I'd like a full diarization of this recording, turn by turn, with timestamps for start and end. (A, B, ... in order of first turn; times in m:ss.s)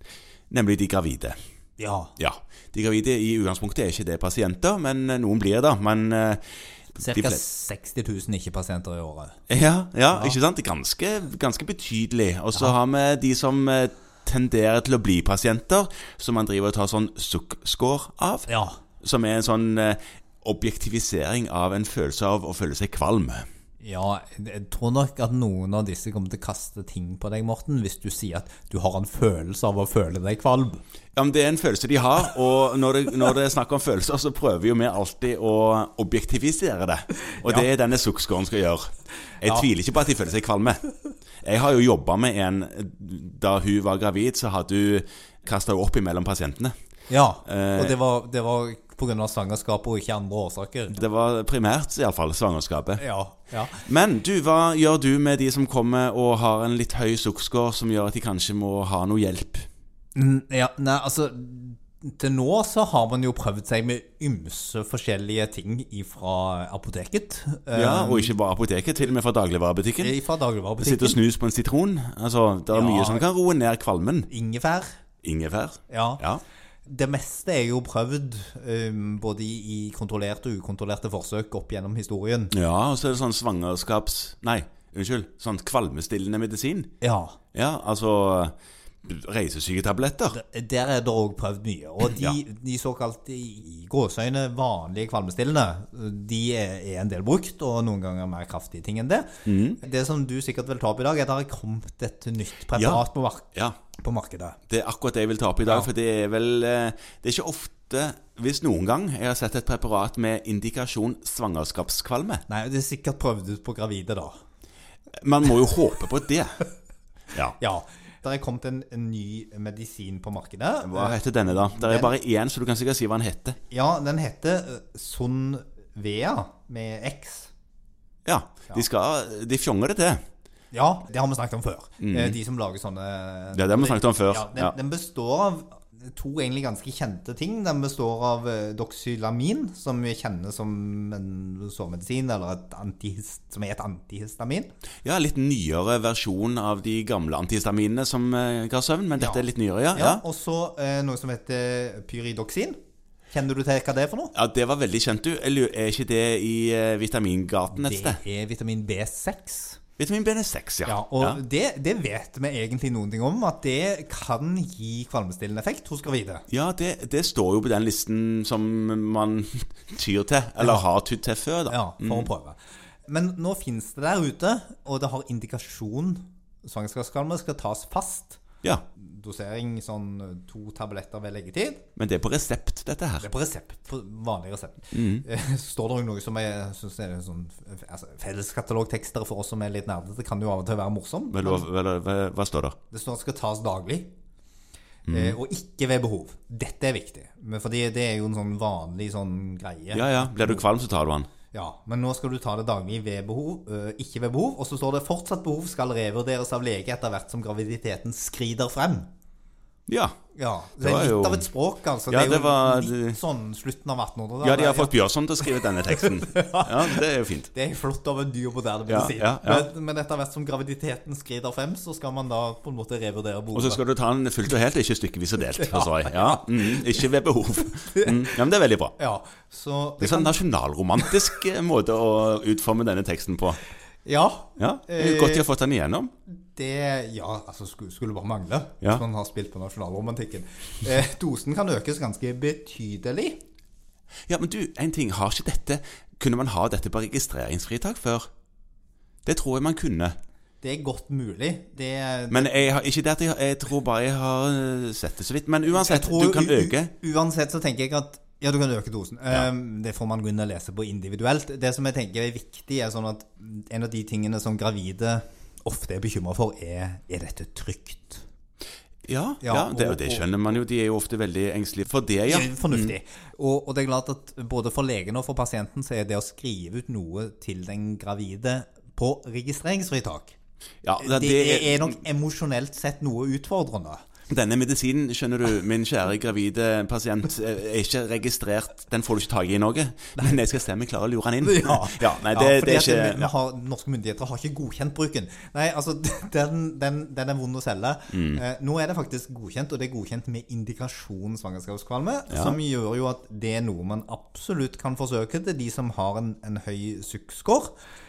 0:00.5-0:01.4 A
0:01.8-0:02.1 B
0:02.2-0:06.4 A
0:07.0-0:07.4 A
0:07.0-0:09.4 B
0:09.5-0:18.5 A
0:18.5-0:18.8 B
0:19.0-0:23.4 A
0:23.8-0:30.8 B
0:31.2-0:40.8 A
0:41.4-0:46.7 A
0:47.1-0:51.0 B
0:47.4-0:48.0 A
0:50.9-0:53.0 A
0:53.0-0:53.8 B
0:53.8-0:59.7 A
1:00.1-1:08.3 B
1:07.7-1:10.1 A
1:10.0-1:11.2 B
1:10.8-1:14.3 A
1:12.7-1:13.2 B
1:14.3-1:14.9 B
1:15.2-1:16.4 A
1:15.9-1:16.2 B
1:16.8-1:22.5 B
1:22.5-1:26.9 A
1:27.0-1:27.4 B
1:27.5-1:30.4 A
1:30.3-1:43.4 B
1:32.0-1:32.4 A
1:39.4-1:39.8 A
1:42.7-1:43.0 A
1:44.0-1:44.6 B
1:44.7-1:52.4 A
1:52.5-1:54.4 B
1:55.2-1:56.6 A
1:57.6-2:02.1 B
2:00.8-2:03.6 A
2:03.7-2:07.5 B
2:08.2-2:10.2 A
2:10.7-2:24.7 B
2:12.0-2:12.4 A
2:13.5-2:14.7 A
2:25.0-2:30.2 A
2:29.2-2:32.8 B
2:33.3-2:34.3 B
2:34.3-2:38.2 A
2:37.7-2:39.8 B
2:40.0-2:41.4 A
2:40.8-2:46.4 B
2:46.5-2:52.3 A
2:51.7-2:58.4 B
2:59.0-3:01.8 B
3:02.0-3:03.3 A
3:03.2-3:11.6 B
3:04.9-3:05.2 A
3:11.3-3:12.7 A
3:12.9-3:14.1 B
3:15.1-3:15.4 A
3:15.1-3:20.6 B
3:19.9-3:21.3 A
3:21.5-3:29.1 B
3:29.9-3:30.2 A
3:30.3-3:34.9 B
3:30.8-3:31.5 A
3:32.1-3:33.2 A
3:34.4-3:37.5 A
3:35.9-3:43.8 B
3:38.9-3:39.7 A
3:43.5-3:48.9 A
3:45.6-3:47.0 B
3:47.8-3:48.3 B
3:49.0-3:50.4 B
3:50.0-3:53.6 A
3:54.0-3:55.5 B
3:54.6-3:56.1 A
3:56.3-4:03.4 B
4:04.3-4:08.3 A
4:09.2-4:10.1 A
4:10.6-4:12.6 B
4:12.3-4:16.9 A
4:15.7-4:28.2 B
4:29.0-4:32.9 A
4:29.4-4:30.3 B
4:32.2-4:40.4 B
4:40.8-4:42.0 A
4:41.0-4:44.0 B
4:44.3-4:53.3 A
4:51.4-5:07.8 B
4:58.1-4:58.4 A
5:02.3-5:02.6 A